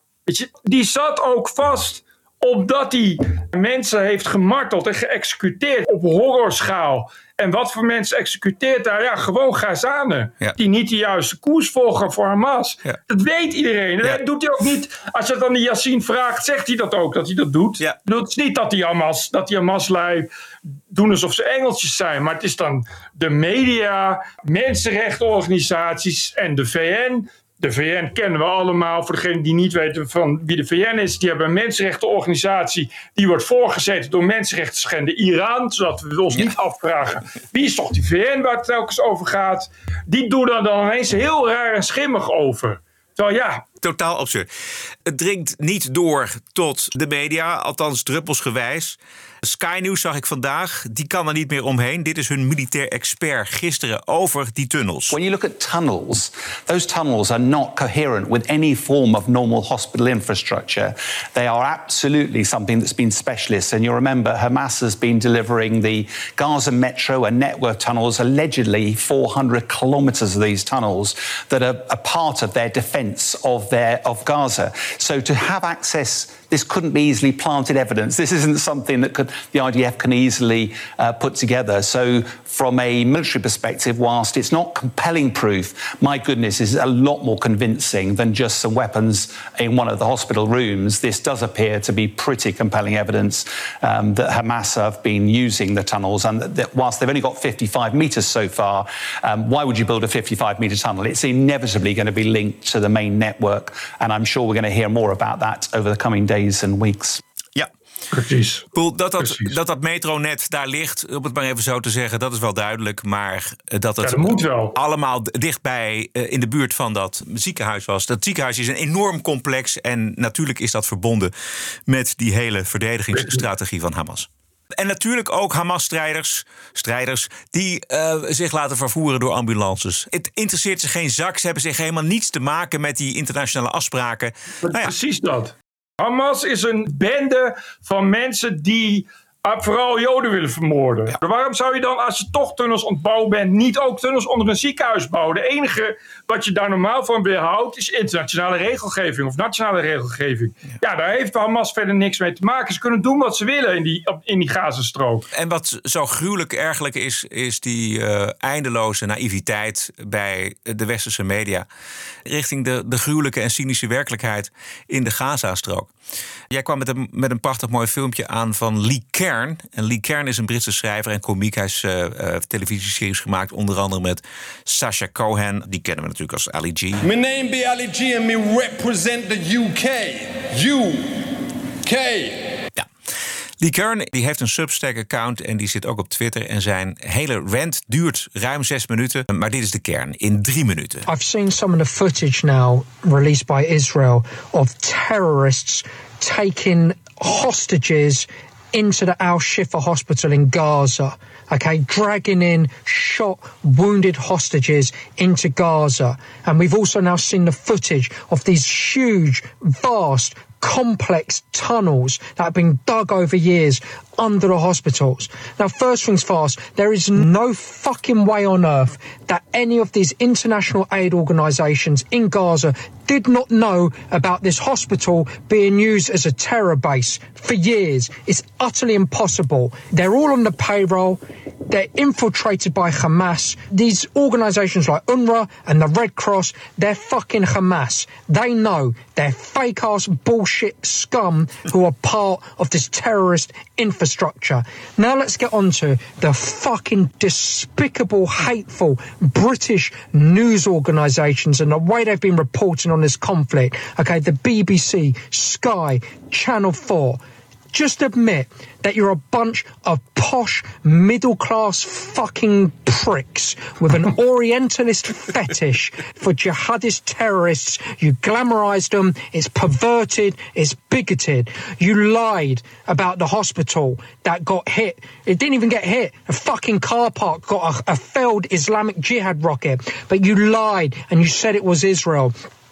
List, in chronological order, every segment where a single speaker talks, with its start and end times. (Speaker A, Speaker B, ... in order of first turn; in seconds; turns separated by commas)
Speaker A: 0.3-20.3, Speaker A: 20.9-43.6, Speaker B: 43.8-44.5, Speaker B: 45.0-55.1, Speaker C: 55.1-107.2, Speaker A: 108.1-108.7, Speaker B: 108.7-121.3, Speaker A: 109.2-109.5, Speaker A: 114.0-114.7, Speaker B: 121.9-134.9, Speaker A: 123.2-123.4, Speaker A: 134.6-155.3, Speaker B: 155.3-161.7, Speaker B: 162.3-165.9, Speaker B: 166.5-177.0, Speaker D: 177.1-181.2, Speaker D: 181.8-182.4, Speaker B: 183.6-191.0, Speaker E: 191.1-257.2, Speaker E: 257.7-282.3